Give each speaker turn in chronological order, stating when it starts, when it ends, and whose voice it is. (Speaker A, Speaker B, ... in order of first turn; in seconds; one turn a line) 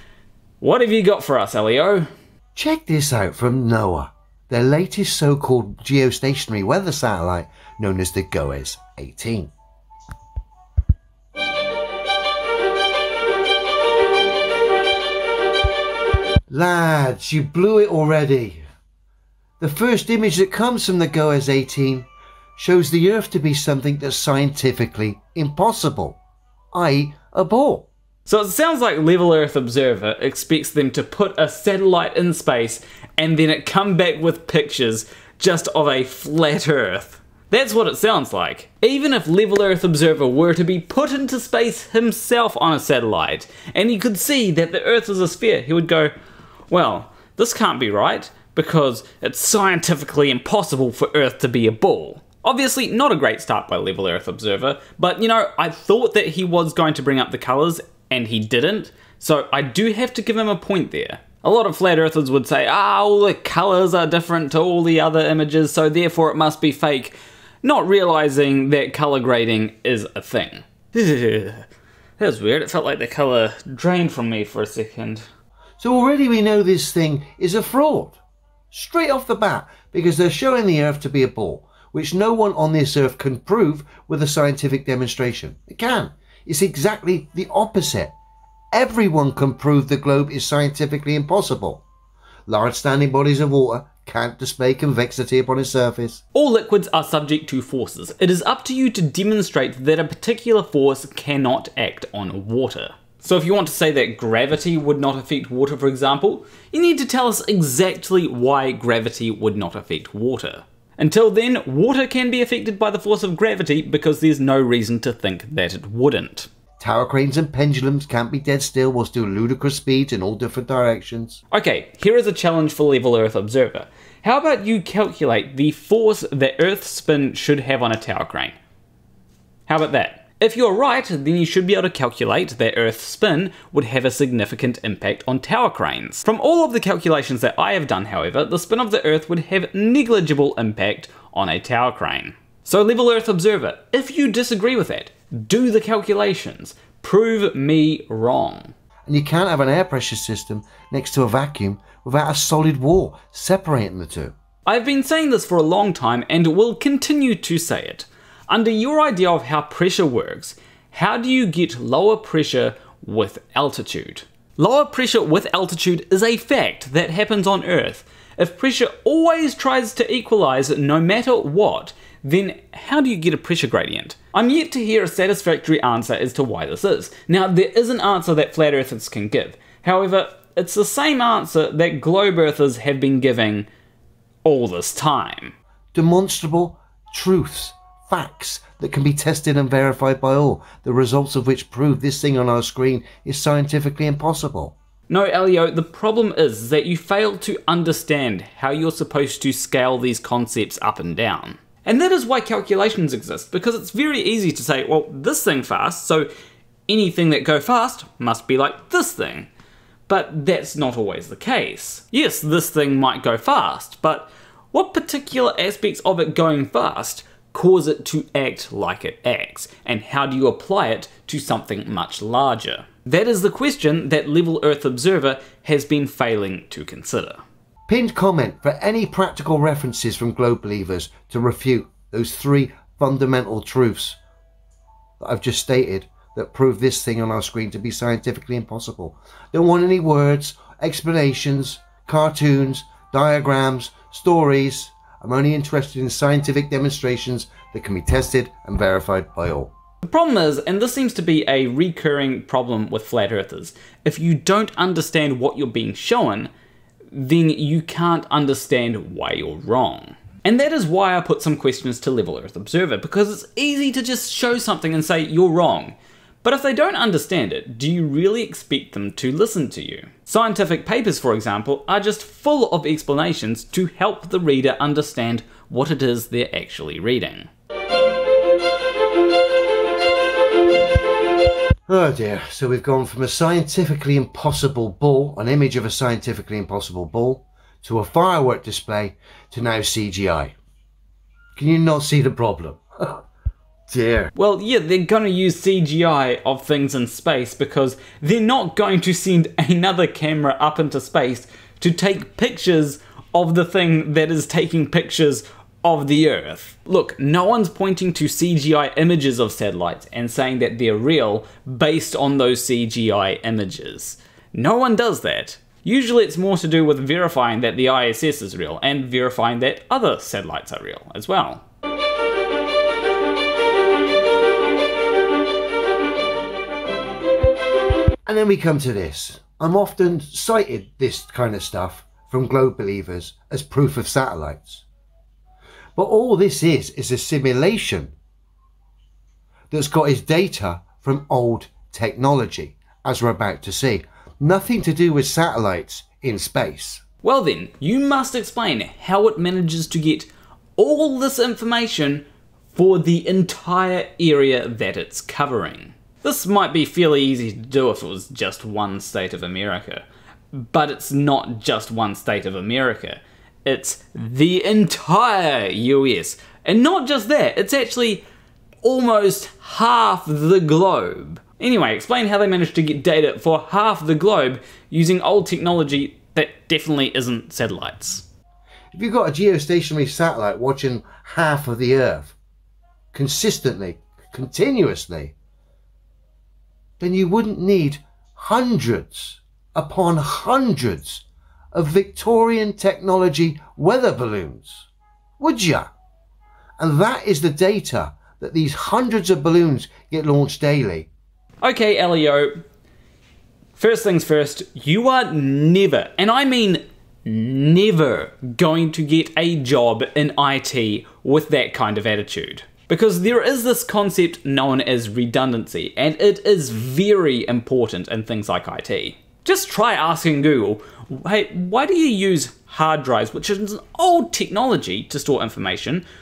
Speaker A: 0.6-2.1
Speaker B: 2.5-9.5
Speaker B: 16.5-18.6
Speaker B: 19.6-26.2
Speaker B: 26.7-27.9
Speaker A: 28.3-46.1
Speaker A: 46.7-71.6
Speaker A: 72.2-75.2
Speaker B: 75.8-78.2
Speaker B: 78.7-88.1
Speaker B: 88.7-91.8
Speaker B: 92.5-96.2
Speaker A: 96.3-116.5
Speaker B: 116.8-121.4
Speaker A: 121.5-128.5
Speaker A: 129.7-148.7
Speaker B: 149.1-154.3
Speaker A: 154.7-183.7
Speaker A: 184.4-185.5
Speaker B: 185.9-194.7
Speaker A: 195.1-206.3
Speaker A: 206.9-209.5
Speaker A: 210.1-227.4
Speaker B: 227.9-234.2
Speaker B: 235.2-249.7
Speaker A: 250.0-256.5
Speaker A: 257.1-277.5
Speaker B: 281.9-290.5
Speaker B: 291.6-293.2
Speaker B: 293.9-294.3
Speaker A: 294.3-321.6
Speaker B: 328.2-334.8
Speaker B: 335.9-338.1
Speaker B: 339.7-347.0
Speaker A: 347.2-368.2
Speaker A: 368.8-378.2
Speaker B: 378.9-382.4
Speaker B: 383.1-385.3
Speaker B: 387.0-394.9
Speaker B: 395.4-395.9
Speaker B: 396.8-401.1
Speaker A: 401.6-402.6
Speaker A: 403.8-426.0